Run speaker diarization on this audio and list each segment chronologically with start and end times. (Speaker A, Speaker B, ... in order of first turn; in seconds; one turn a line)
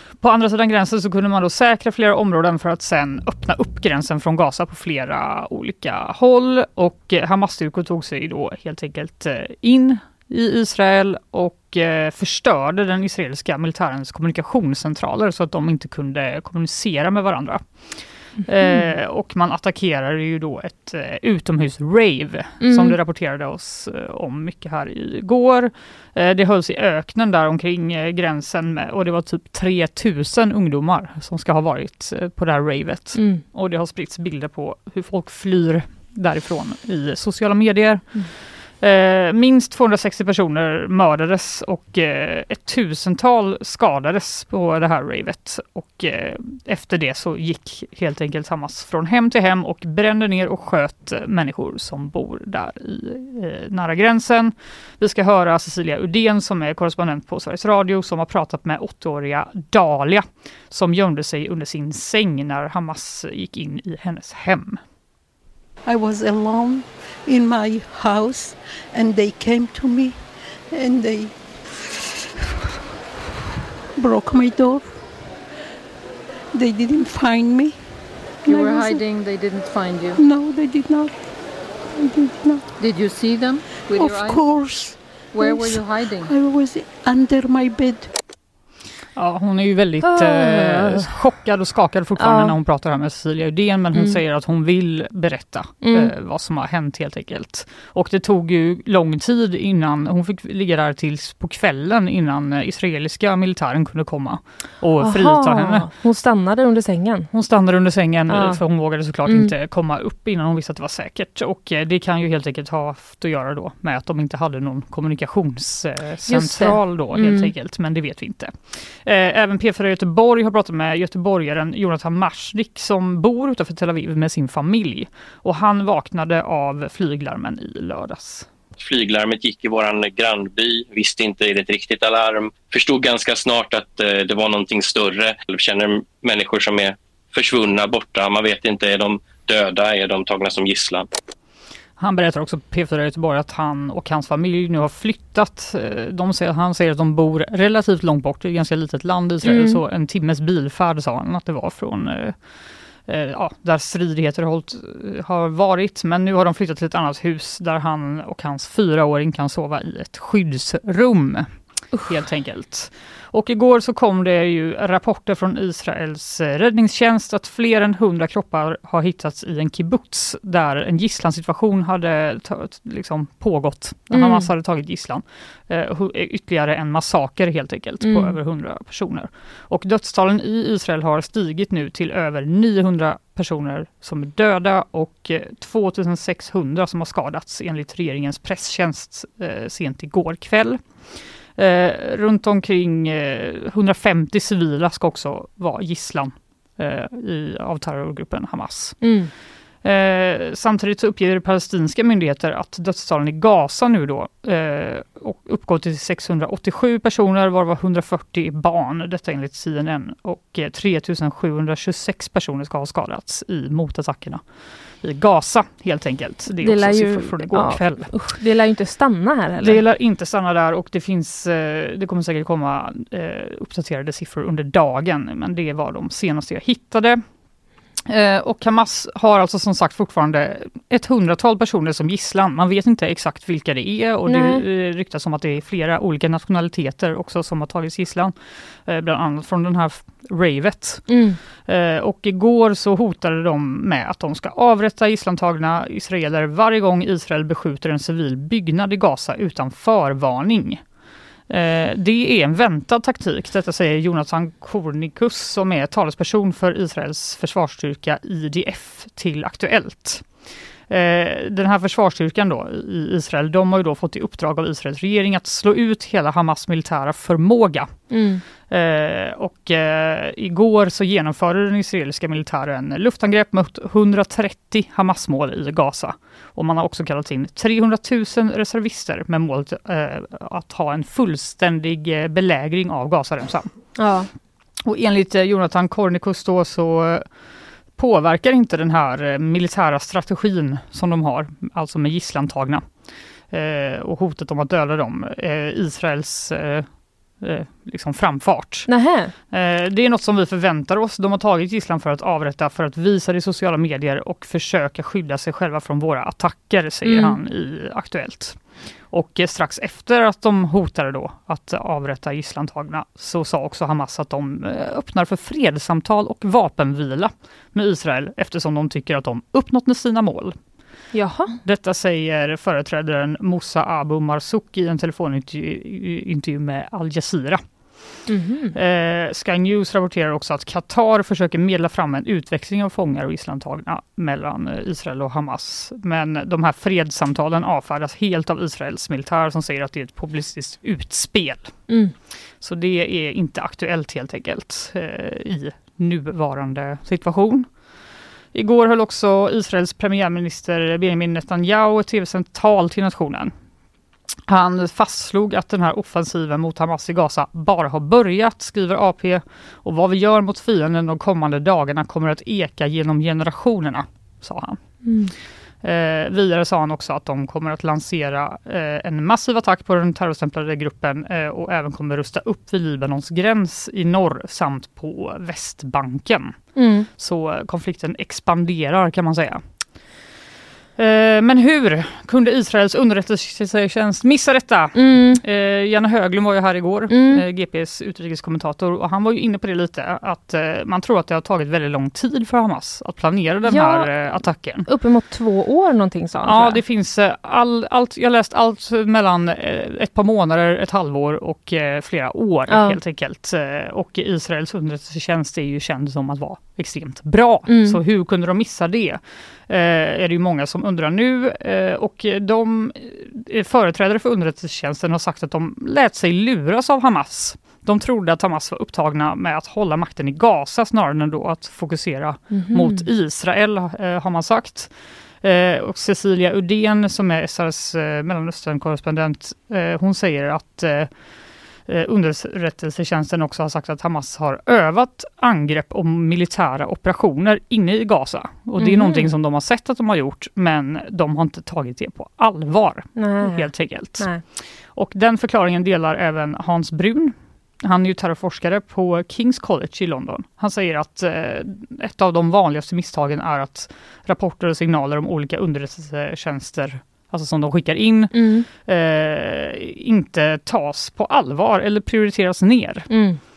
Speaker A: 0.2-17.6
Speaker A: 18.5-38.1
Speaker B: 22.6-23.0
Speaker B: 33.1-33.4
Speaker A: 38.8-64.8
Speaker C: 65.9-70.2
Speaker C: 70.7-71.3
Speaker C: 74.0-74.9
Speaker C: 76.5-77.8
Speaker C: 78.5-79.0
Speaker D: 78.5-80.2
Speaker C: 80.1-81.1
Speaker C: 81.9-82.7
Speaker D: 82.8-84.4
Speaker C: 83.9-88.1
Speaker D: 85.3-86.3
Speaker A: 89.2-105.9
Speaker B: 90.0-91.1
Speaker B: 92.2-92.6
Speaker B: 95.8-96.1
Speaker B: 105.0-107.3
Speaker A: 107.3-128.5
Speaker B: 108.3-108.6
Speaker B: 109.3-109.5
Speaker B: 116.3-117.5
Speaker E: 128.8-141.1
Speaker A: 142.0-152.4
Speaker B: 149.4-149.8
Speaker A: 153.1-161.5
Speaker A: 162.1-190.8
Speaker B: 174.1-174.5
Speaker B: 178.0-178.3
Speaker A: 191.6-199.0
Speaker B: 199.0-199.3
Speaker A: 199.8-214.4
Speaker A: 215.0-218.1
Speaker B: 216.6-219.8
Speaker A: 219.6-227.2
Speaker A: 228.1-238.3
Speaker B: 234.3-234.6
Speaker A: 238.9-241.1
Speaker B: 241.1-241.4
Speaker A: 241.7-250.8
Speaker A: 251.5-260.3
Speaker A: 260.9-267.9
Speaker B: 268.1-268.4
Speaker A: 268.7-283.7
Speaker B: 284.0-284.3
Speaker A: 284.9-287.3
Speaker A: 288.0-292.9
Speaker A: 293.5-296.9
Speaker A: 297.4-298.9
Speaker B: 298.9-299.3
Speaker A: 299.5-308.6
Speaker B: 307.0-307.4
Speaker A: 309.1-320.6
Speaker B: 321.1-321.6
Speaker A: 321.6-327.6
Speaker B: 328.3-328.8
Speaker A: 328.7-341.7
Speaker B: 341.9-342.1
Speaker A: 342.6-347.7
Speaker A: 348.5-353.5
Speaker A: 354.5-364.8
Speaker B: 365.1-365.3
Speaker A: 365.8-376.6
Speaker B: 376.8-377.1
Speaker A: 377.2-379.6
Speaker A: 381.0-394.9
Speaker B: 384.9-385.4
Speaker B: 387.1-387.4
Speaker B: 393.7-394.1
Speaker B: 394.9-396.8
Speaker A: 396.4-431.1
Speaker B: 402.7-403.0
Speaker B: 407.7-408.0
Speaker B: 422.5-423.1
Speaker A: 431.9-444.3
Speaker B: 438.8-439.3
Speaker B: 443.2-444.4
Speaker A: 444.9-463.1
Speaker B: 458.3-458.7
Speaker B: 463.1-463.4